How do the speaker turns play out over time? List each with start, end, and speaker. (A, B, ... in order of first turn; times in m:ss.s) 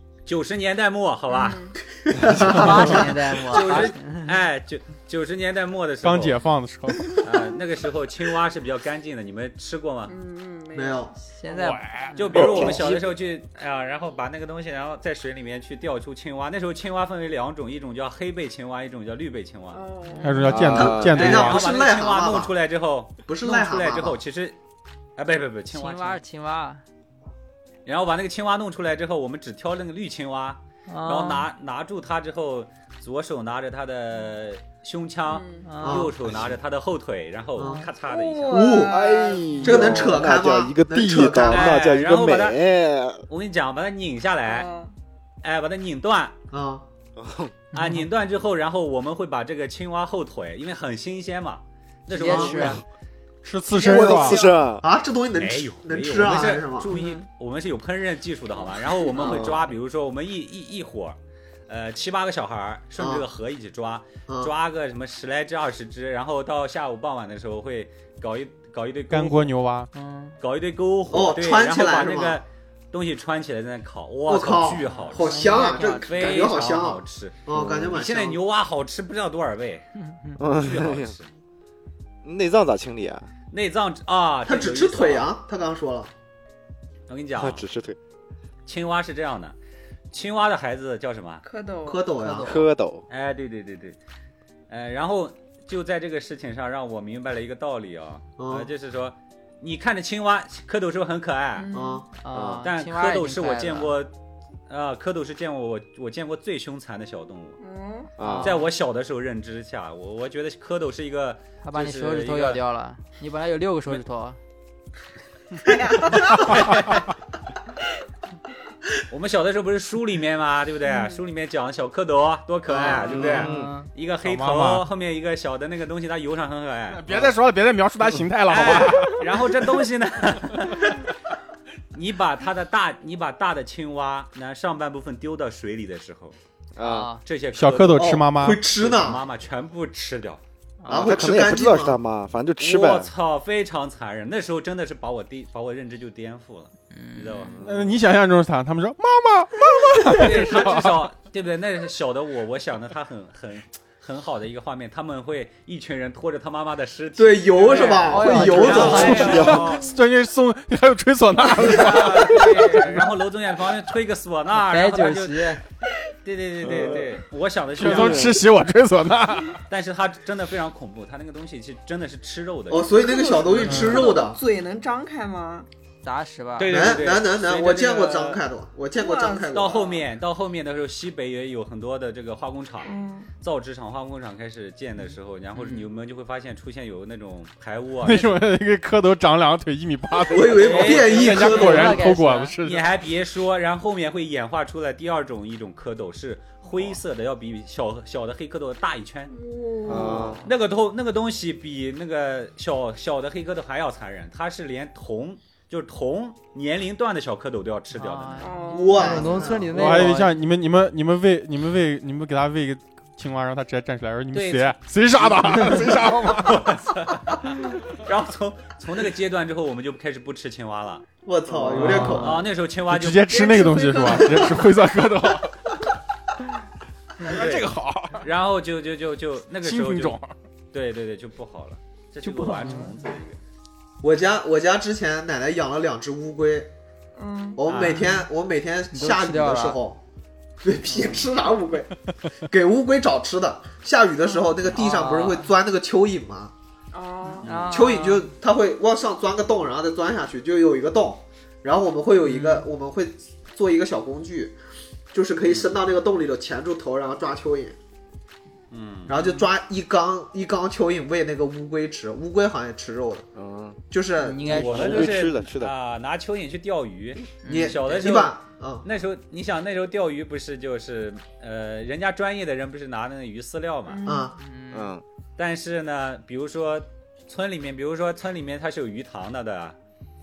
0:00.3-0:01.6 A
0:01.3-0:01.8 B
0:01.9-0:03.8 C
0:02.4-0:04.3 D
0:02.5-0:02.8 E
0:03.4-0:06.4 A
0:06.0-0:07.3 E
0:07.2-0:10.1 A
0:10.1-0:11.1 B
0:10.7-0:11.1 C
0:11.2-0:12.7 D
0:11.5-0:12.2 E
0:12.2-0:19.8 A
0:12.3-0:13.0 F
0:12.6-0:12.9 C
0:19.7-0:20.7 B
0:20.1-0:20.6 D
0:20.2-0:21.6 E
0:20.5-0:21.4 F
0:20.7-0:22.5 C
0:21.1-0:24.6 A
0:23.3-0:24.2 C
0:25.2-0:26.2 A
0:25.7-0:26.8 D
0:27.9-0:38.7 A
0:30.9-0:31.5 D
0:35.3-0:35.7 B
0:35.6-0:36.1 D
0:35.8-0:36.1 C
0:37.6-0:37.9 C
0:37.6-0:37.9 D
0:38.1-0:39.6 B
0:38.5-0:39.0 C
0:38.9-0:43.2 F
0:39.5-0:40.0 D
0:39.6-0:41.8 C
0:41.4-0:42.6 A
0:43.3-0:44.7 A
0:44.5-0:44.9 B
0:45.4-0:46.4 A
0:46.5-0:46.8 C
0:47.2-0:47.5 F
0:47.7-0:48.1 D
0:47.7-0:52.8 A
0:52.1-0:52.8 D
0:52.3-0:52.7 C
0:53.4-0:54.4 E
0:53.7-0:56.9 C
0:53.8-0:54.9 F
0:55.3-1:01.2 A
0:56.9-0:57.2 D
0:59.2-0:59.4 D
0:59.2-0:59.5 C
0:59.2-0:59.5 F
1:01.7-1:09.5 A
1:03.0-1:03.2 C
1:09.1-1:09.9 E
1:09.9-1:10.4 D
1:10.4-1:19.8 A
1:11.1-1:12.4 C
1:14.3-1:18.4 C
1:15.0-1:16.6 D
1:17.5-1:18.0 F
1:20.0-1:20.4 D
1:20.4-1:21.2 F
1:20.5-1:21.3 A
1:22.2-1:23.3 F
1:23.5-1:25.3 A
1:24.4-1:26.1 C
1:27.1-1:27.6 A
1:27.4-1:28.0 F
1:28.7-1:29.6 A
1:30.1-1:31.4 A
1:31.4-1:32.1 B
1:31.9-1:32.6 C
1:32.2-1:32.7 D
1:32.4-1:33.0 F
1:33.1-1:34.0 A
1:34.7-1:41.8 A
1:38.4-1:38.7 C
1:41.6-1:42.1 B
1:41.7-1:42.0 C
1:42.2-1:44.0 D
1:42.3-1:42.6 F
1:42.6-1:44.1 A
1:44.7-1:47.6 A
1:47.6-1:48.1 B
1:48.2-1:48.6 F
1:48.2-1:48.7 D
1:48.4-1:52.6 A
1:51.6-1:54.4 D
1:55.6-1:56.6 B
1:56.1-1:57.1 A
1:59.1-2:07.0 A
2:00.9-2:01.2 B
2:02.7-2:03.4 C
2:03.0-2:03.3 B
2:03.1-2:03.7 F
2:03.1-2:03.9 D
2:04.2-2:04.9 E
2:06.9-2:09.5 E
2:08.5-2:11.0 A
2:11.9-2:16.4 A
2:16.8-2:17.1 F
2:16.8-2:17.2 D
2:17.2-2:18.1 A
2:17.5-2:18.6 E
2:18.0-2:19.2 C
2:18.7-2:20.4 A
2:20.8-2:21.2 D
2:20.9-2:22.0 C
2:20.9-2:23.1 F
2:22.6-2:27.6 A
2:26.9-2:27.6 D
2:27.5-2:28.0 F
2:27.6-2:31.1 E
2:30.0-2:39.9 A
2:37.2-2:39.4 C
2:37.7-2:39.6 D
2:38.3-2:39.7 F
2:38.4-2:43.1 E
2:41.6-2:45.6 A
2:44.6-2:45.6 D
2:46.2-2:48.4 A
2:46.6-2:47.1 F
2:47.8-2:49.6 E
2:47.8-2:48.4 F
2:49.7-2:53.0 A
2:52.7-2:54.4 C
2:53.0-2:55.7 B
2:53.7-2:54.0 E
2:56.0-2:56.8 D
2:56.6-2:58.4 A
2:56.7-2:59.9 C
2:59.0-3:00.0 B
2:59.5-3:08.4 A
3:02.8-3:03.3 B
3:05.5-3:05.9 D
3:08.0-3:12.9 E
3:10.3-3:12.0 C
3:10.4-3:12.0 A
3:10.7-3:12.6 D
3:12.6-3:19.3 A
3:19.3-3:20.4 B
3:19.8-3:20.4 F
3:19.9-3:20.4 D
3:20.4-3:28.5 A
3:27.9-3:30.4 D
3:28.4-3:29.4 B
3:28.7-3:30.0 C
3:29.7-3:36.9 E
3:34.3-3:41.0 A
3:41.2-3:42.4 C
3:41.6-3:42.0 F
3:41.7-3:45.8 E
3:41.8-3:43.3 A
3:41.8-3:42.4 D
3:43.3-3:44.9 B
3:47.2-3:48.3 E
3:47.2-3:50.2 A
3:49.6-3:50.3 E
3:50.7-3:53.4 A
3:52.2-3:53.0 D
3:54.0-3:56.7 C
3:57.2-3:57.6 B
3:57.6-4:00.0 C
3:57.7-3:58.2 A
3:57.8-3:58.3 D
3:58.9-3:59.8 D
4:00.6-4:01.9 C
4:02.4-4:06.5 C
4:04.2-4:04.6 B
4:04.7-4:05.5 D
4:06.9-4:07.5 B
4:07.3-4:08.3 D
4:07.4-4:07.7 A
4:07.7-4:14.6 C
4:12.2-4:12.7 D
4:15.1-4:17.8 C
4:15.4-4:15.8 A
4:18.7-4:19.3 A
4:19.1-4:23.3 C
4:23.4-4:23.8 F
4:23.9-4:25.1 C
4:24.2-4:25.1 D
4:24.5-4:34.1 A
4:24.6-4:25.8 F
4:27.4-4:27.8 D
4:27.5-4:28.8 C
4:33.9-4:34.3 B
4:34.1-4:34.3 C
4:34.3-4:34.9 D
4:34.7-4:35.0 F
4:35.4-4:39.8 A